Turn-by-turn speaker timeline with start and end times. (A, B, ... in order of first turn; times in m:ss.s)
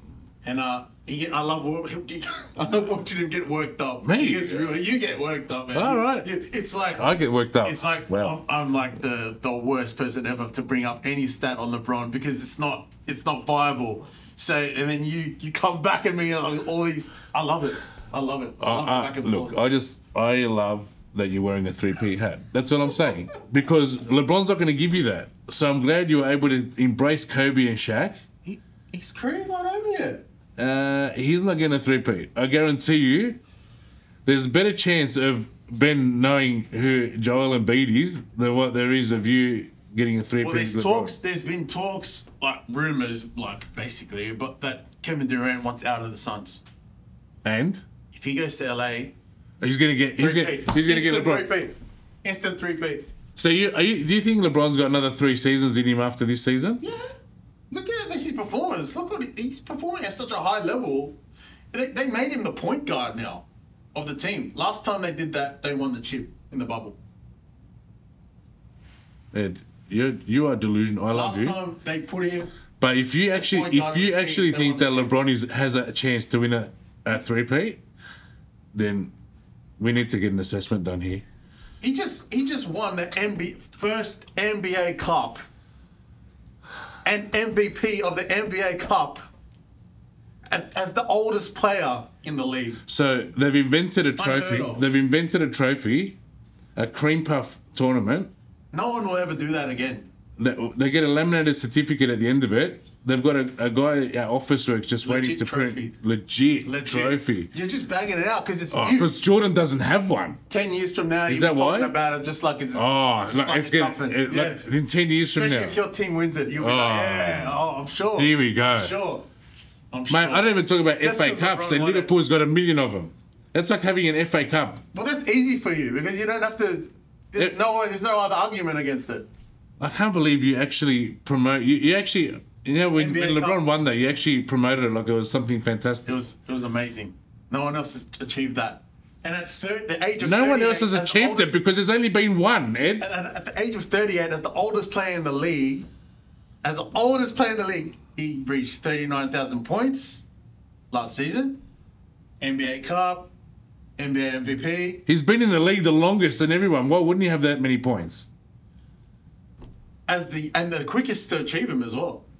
0:00.4-0:19.6 A
0:04.0-0:04.7 B
0:05.7-0:06.3 B
0:07.0-0:08.4 B
0:18.6-0:28.2 B
0:28.4-0:30.2 A
0:30.6-0:33.4 B
0:34.2-0:41.2 B
0:40.4-0:46.6 A
0:47.4-0:47.8 B
0:48.1-0:49.1 A
0:49.6-0:51.5 B
0:50.2-0:53.1 A
0:53.4-0:56.8 B
0:56.8-0:57.1 A
0:57.7-1:01.2 A
1:01.7-1:07.0 A
1:09.3-1:11.6 B
1:11.1-1:12.5 A
1:12.8-1:17.8 B
1:13.3-1:15.1 A
1:18.7-1:19.1 B
1:19.8-1:21.2 B
1:21.8-1:25.4 A
1:27.0-1:29.2 A
1:30.5-1:32.8 A
1:32.9-1:36.2 B
1:34.2-1:34.8 A
1:36.8-1:38.3 B
1:38.7-1:40.1 A
1:40.4-1:47.5 B
1:45.0-1:46.0 A
1:46.6-1:49.1 A
1:48.7-1:50.4 B
1:50.5-1:54.7 A
1:51.3-1:52.0 B
1:52.7-1:55.8 B
1:55.3-1:59.3 A
1:56.6-1:57.6 B
1:58.2-1:59.0 B
1:59.9-2:02.1 A
2:00.1-2:04.8 B
2:04.9-2:09.3 A
2:09.8-2:16.2 B
2:13.0-2:13.6 A
2:16.0-2:21.6 A
2:20.2-2:23.1 B
2:23.0-2:25.9 A
2:26.6-2:30.2 A
2:30.9-2:31.6 A
2:32.4-2:33.3 A
2:34.0-2:35.0 A
2:35.1-2:38.3 B
2:40.1-2:42.2 A